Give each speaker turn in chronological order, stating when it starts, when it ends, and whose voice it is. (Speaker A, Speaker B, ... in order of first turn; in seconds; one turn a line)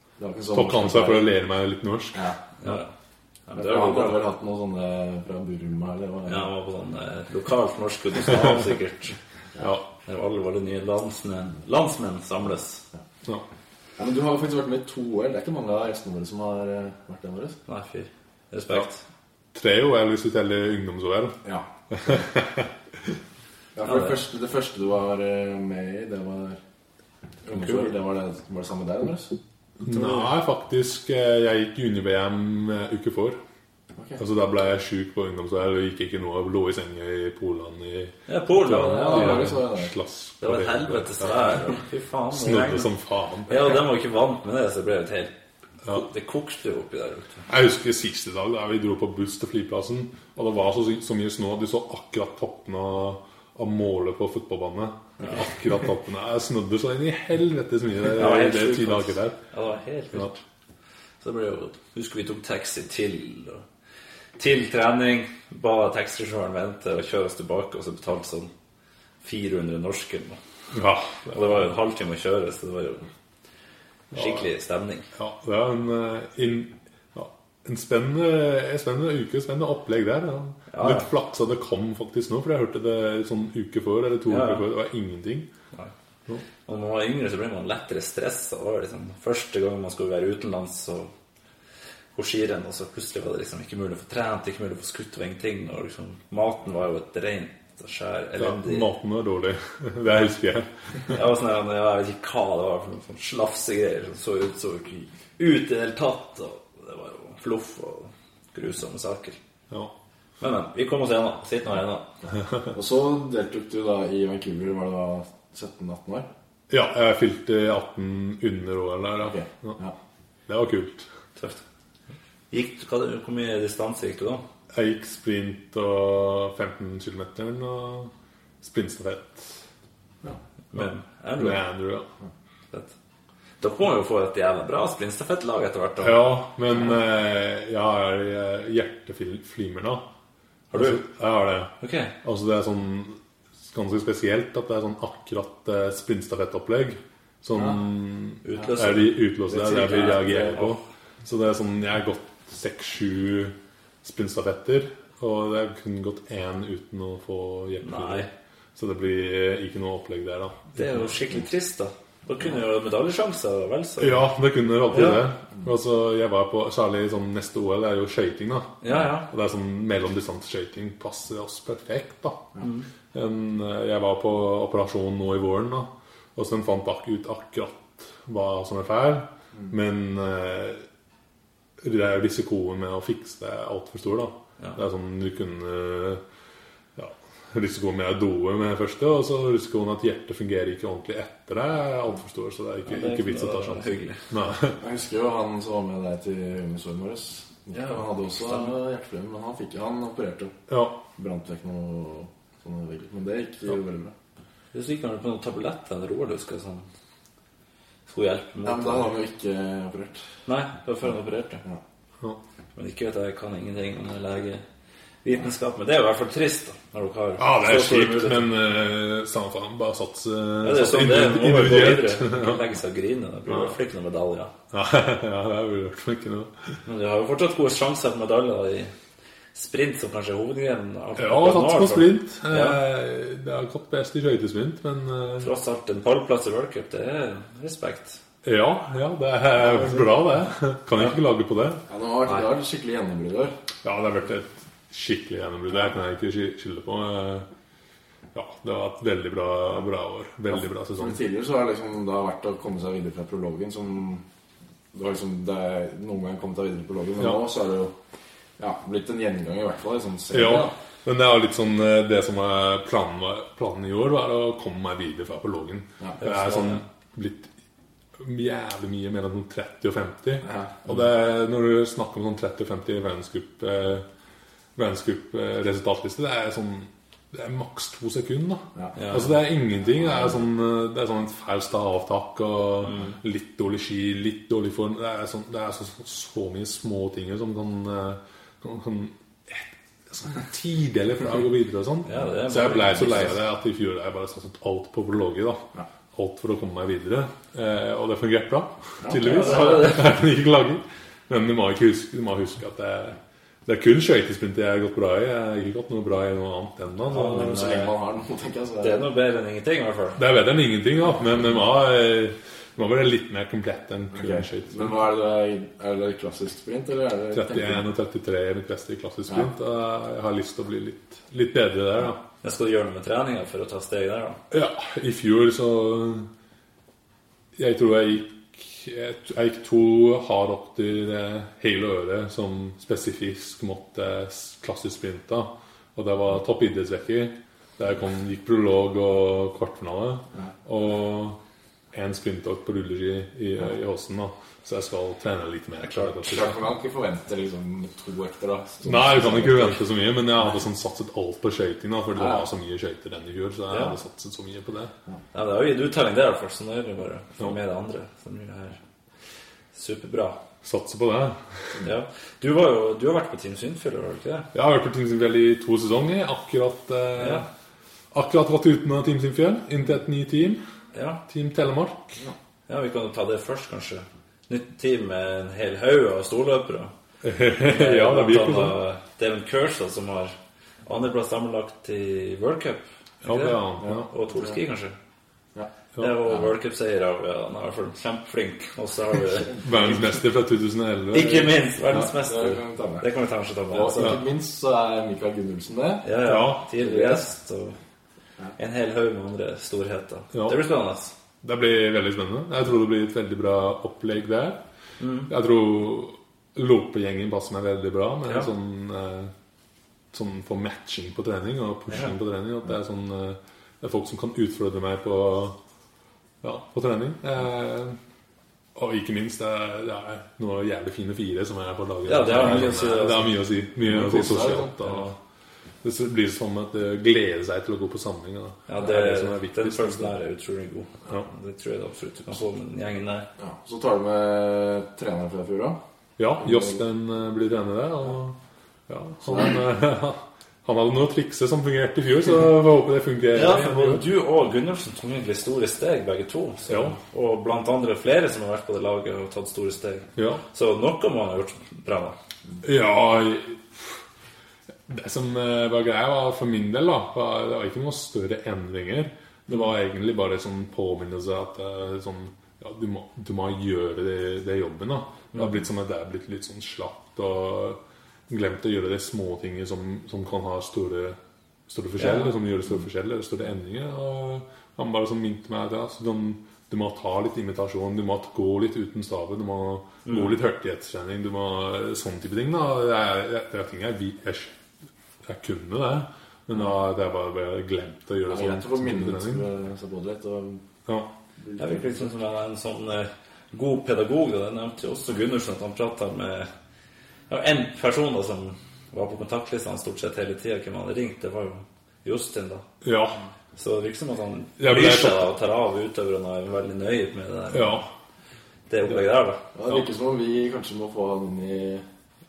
Speaker A: 0.2-1.3
Speaker B: 0.5-2.3
Speaker C: 2.6-2.9
Speaker C: 3.5-4.2
Speaker A: 3.5-6.5
Speaker C: 6.2-9.2
Speaker B: 9.6-9.8
Speaker C: 10.1-12.8
Speaker A: 14.0-17.6
Speaker C: 17.7-19.0
Speaker B: 19.5-21.4
Speaker B: 21.9-22.7
Speaker A: 23.8-26.6
Speaker C: 23.8-24.1
Speaker A: 27.4-29.3
Speaker C: 27.6-27.9
Speaker B: 29.8-33.4
Speaker A: 34.0-34.2
Speaker B: 34.2-41.3
Speaker C: 38.3-39.5
Speaker A: 38.6-39.9
Speaker C: 40.4-42.9
Speaker B: 42.3-43.7
Speaker C: 43.5-45.3
Speaker C: 45.9-47.4
Speaker B: 47.5-59.4
Speaker C: 58.1-60.4
Speaker C: 61.2-63.6
Speaker C: 64.4-68.5
Speaker C: 69.2-70.4
Speaker B: 70.7-71.6
Speaker C: 71.3-73.1
Speaker C: 74.1-75.1
Speaker B: 74.1-74.4
Speaker B: 75.1-85.5
Speaker C: 80.7-81.1
Speaker C: 84.3-84.6
Speaker C: 86.6-91.1
Speaker C: 92.1-98.9
Speaker B: 98.4-100.7
Speaker C: 101.1-109.4
Speaker C: 110.4-112.1
Speaker A: 112.7-116.3
Speaker B: 116.7-119.8
Speaker A: 119.2-119.9
Speaker B: 120.5-121.1
Speaker C: 121.3-121.6
Speaker C: 122.5-124.4
Speaker B: 124.7-128.1
Speaker B: 128.6-129.6
Speaker C: 130.7-131.6
Speaker B: 131.4-132.1
Speaker C: 133.6-136.3
Speaker B: 136.0-140.1
Speaker C: 140.7-141.0
Speaker B: 140.7-141.7
Speaker C: 141.8-142.1
Speaker B: 142.2-161.1
Speaker C: 148.4-150.8
Speaker A: 149.8-150.3
Speaker C: 157.8-158.3
Speaker C: 160.7-164.2
Speaker B: 164.0-172.5
Speaker C: 164.9-165.3
Speaker C: 168.8-169.3
Speaker C: 172.6-172.8
Speaker B: 173.1-180.8
Speaker B: 181.8-186.2
Speaker B: 186.9-194.8
Speaker C: 192.8-194.2
Speaker A: 194.8-200.6
Speaker C: 197.7-198.7
Speaker B: 200.7-201.0
Speaker A: 201.2-204.1
Speaker C: 204.7-206.9
Speaker C: 208.1-209.1
Speaker A: 208.6-210.2
Speaker C: 210.5-211.6
Speaker C: 212.7-214.6
Speaker C: 215.2-218.4
Speaker B: 217.4-222.6
Speaker C: 220.6-224.5
Speaker B: 224.7-226.5
Speaker C: 226.8-228.9
Speaker C: 229.5-232.8
Speaker B: 231.2-235.5
Speaker C: 235.4-238.2
Speaker B: 238.4-241.8
Speaker A: 239.7-240.0
Speaker A: 241.9-243.5
Speaker B: 243.8-247.5
Speaker B: 248.3-251.2
Speaker A: 250.6-254.2
Speaker A: 254.9-257.9
Speaker A: 258.6-260.7
Speaker B: 260.3-267.5
Speaker C: 266.2-266.8
Speaker B: 268.2-274.1
Speaker A: 270.4-270.8
Speaker B: 274.8-307.4
Speaker C: 278.9-279.3
Speaker C: 282.9-283.1
Speaker C: 292.0-293.3
Speaker A: 299.0-299.8
Speaker C: 299.2-300.1
Speaker C: 307.1-307.9
Speaker A: 307.1-309.0
Speaker C: 308.8-310.2
Speaker B: 310.2-314.9
Speaker A: 314.1-317.9
Speaker B: 317.3-322.2
Speaker C: 322.4-324.4
Speaker B: 324.5-326.3
Speaker B: 327.6-341.4
Speaker B: 341.9-346.6
Speaker A: 346.2-349.8
Speaker B: 348.8-354.9
Speaker A: 352.2-352.4
Speaker C: 353.7-353.9
Speaker C: 355.3-358.8
Speaker C: 359.7-360.4
Speaker B: 360.6-361.4
Speaker C: 361.8-364.5
Speaker B: 364.5-367.4
Speaker C: 367.2-367.4
Speaker B: 368.1-370.6
Speaker C: 370.9-371.2
Speaker B: 371.3-372.2
Speaker C: 372.7-376.9
Speaker B: 377.2-378.8
Speaker C: 377.6-380.3
Speaker C: 380.9-384.9
Speaker B: 383.2-384.1
Speaker A: 383.8-384.4
Speaker C: 386.0-389.5
Speaker A: 389.4-389.9
Speaker B: 389.6-392.1
Speaker C: 391.1-394.2
Speaker A: 392.0-393.0
Speaker A: 393.7-396.1
Speaker C: 396.0-397.8
Speaker B: 396.2-396.6
Speaker A: 396.8-397.2
Speaker C: 398.6-401.1
Speaker B: 400.3-400.6
Speaker B: 401.4-404.6
Speaker C: 405.0-405.3
Speaker B: 405.3-409.3
Speaker B: 410.1-415.6
Speaker B: 416.4-418.0
Speaker B: 418.7-425.1
Speaker C: 422.1-423.3
Speaker A: 423.8-424.9
Speaker B: 425.8-430.1
Speaker C: 428.7-433.3
Speaker A: 433.4-435.8
Speaker B: 436.2-438.4
Speaker B: 438.9-444.0
Speaker C: 443.3-452.1
Speaker B: 446.7-447.0
Speaker B: 450.1-450.4
Speaker B: 452.6-454.0
Speaker B: 454.9-471.2
Speaker B: 471.7-484.5
Speaker C: 472.0-472.3
Speaker B: 485.2-489.4
Speaker A: 488.3-490.6
Speaker A: 491.4-492.0
Speaker C: 491.6-496.5
Speaker C: 497.3-502.6
Speaker B: 502.8-503.2
Speaker C: 503.6-507.8
Speaker B: 504.6-505.3
Speaker B: 507.5-507.8
Speaker C: 508.7-509.4
Speaker A: 509.5-511.8